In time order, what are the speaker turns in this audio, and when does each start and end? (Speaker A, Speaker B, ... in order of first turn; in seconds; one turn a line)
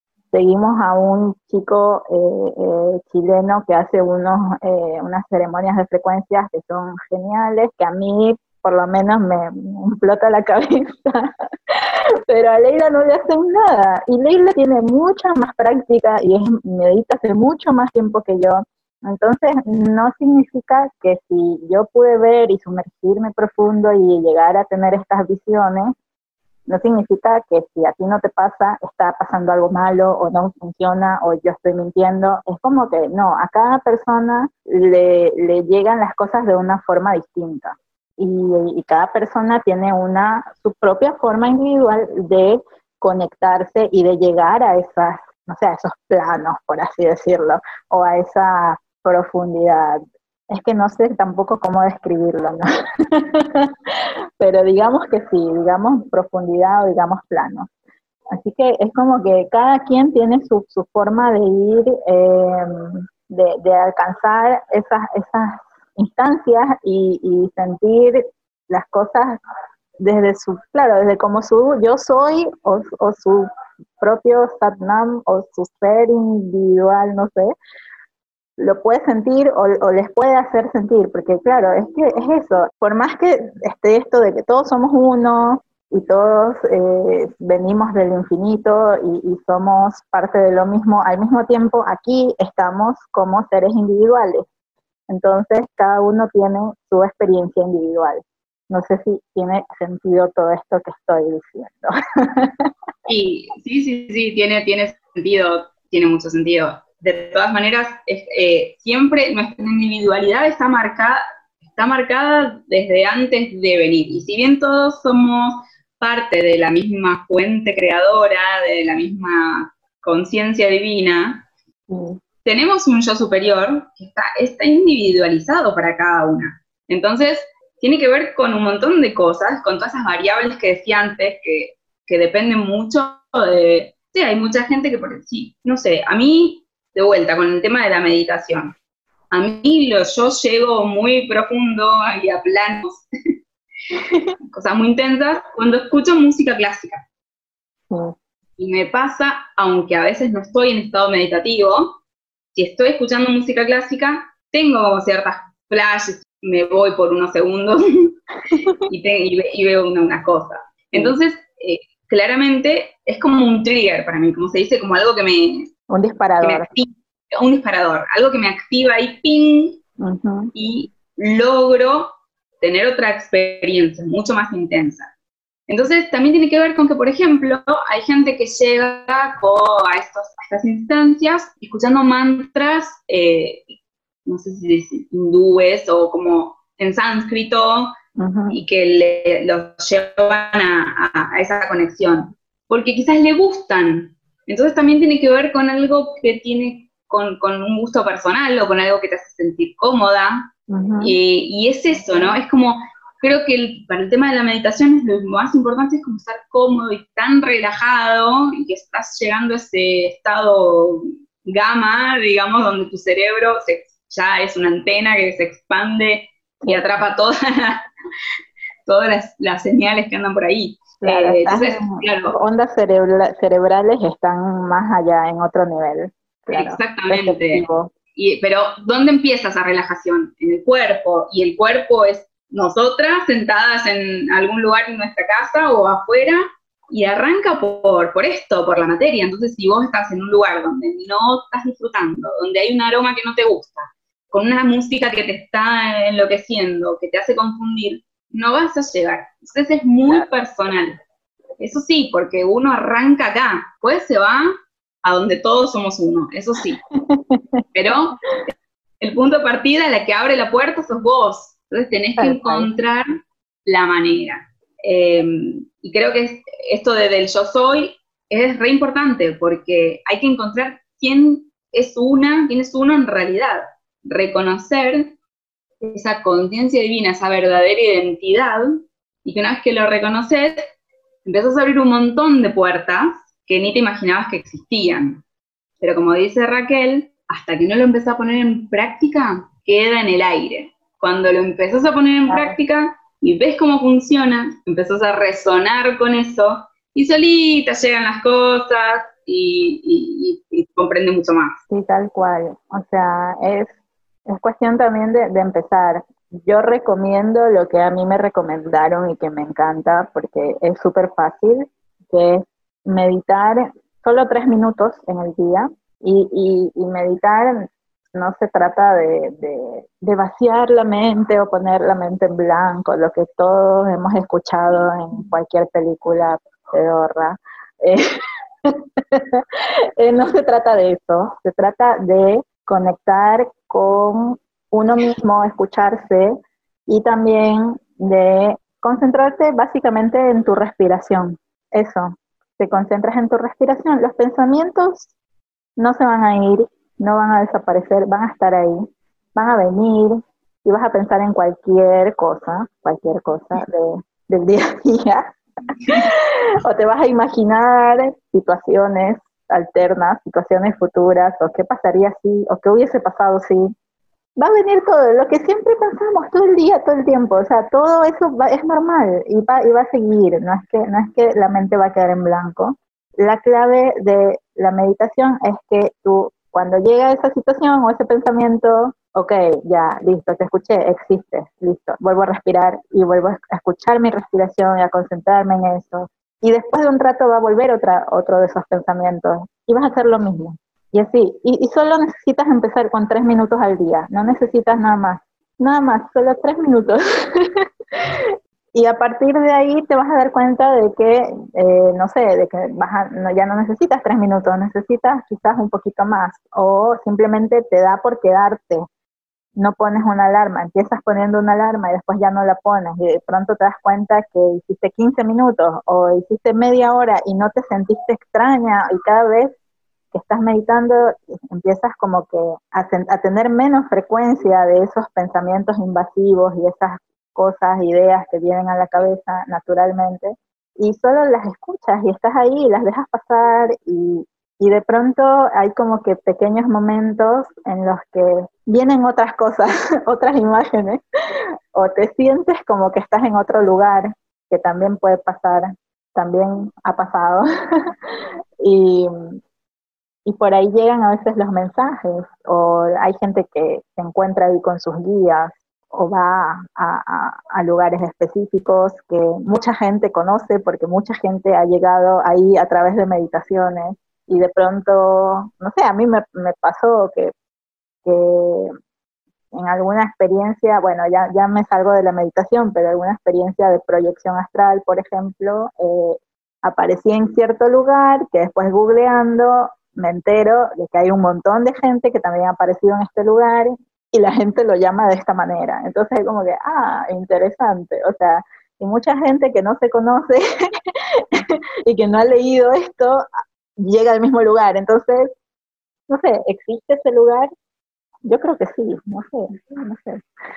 Speaker A: 0.3-25.9
Speaker A: 26.7-53.7
Speaker A: 54.4-57.7
Speaker A: 58.3-69.4
Speaker A: 70.0-73.5
Speaker A: 74.0-77.5
Speaker A: 78.6-94.5
Speaker A: 95.1-102.7
Speaker B: 103.1-121.5
Speaker A: 121.9-122.2
Speaker B: 122.5-138.8
Speaker B: 139.3-143.1
Speaker A: 143.9-144.4
Speaker B: 144.5-147.0
Speaker A: 147.9-148.2
Speaker B: 148.6-152.0
Speaker B: 152.6-158.2
Speaker B: 158.9-165.7
Speaker A: 165.9-166.7
Speaker B: 166.4-169.8
Speaker A: 170.0-170.5
Speaker B: 170.6-175.1
Speaker B: 175.7-183.7
Speaker B: 184.3-187.9
Speaker A: 188.2-188.6
Speaker B: 188.5-217.9
Speaker A: 200.7-201.2
Speaker A: 216.6-216.9
Speaker B: 218.9-222.4
Speaker A: 221.0-227.9
Speaker B: 226.6-227.7
Speaker B: 228.2-251.0
Speaker B: 251.6-256.8
Speaker A: 256.9-257.6
Speaker B: 257.8-258.2
Speaker B: 259.0-275.2
Speaker A: 262.2-262.7
Speaker B: 275.8-280.6
Speaker B: 281.2-285.2
Speaker B: 285.8-301.6
Speaker A: 292.3-292.6
Speaker A: 301.7-303.7
Speaker A: 304.3-328.0
Speaker A: 328.6-329.4
Speaker A: 330.0-336.3
Speaker A: 336.9-345.1
Speaker A: 345.8-348.8
Speaker A: 349.4-355.3
Speaker A: 355.9-363.7
Speaker A: 364.4-397.5
Speaker A: 398.2-408.9
Speaker A: 409.6-419.6
Speaker A: 420.1-441.0
Speaker A: 441.8-447.5
Speaker A: 448.6-449.4
Speaker A: 450.3-467.3
Speaker A: 468.1-468.7
Speaker A: 469.5-490.4
Speaker A: 491.3-493.3
Speaker A: 493.8-495.3
Speaker A: 496.1-497.5
Speaker A: 498.2-500.2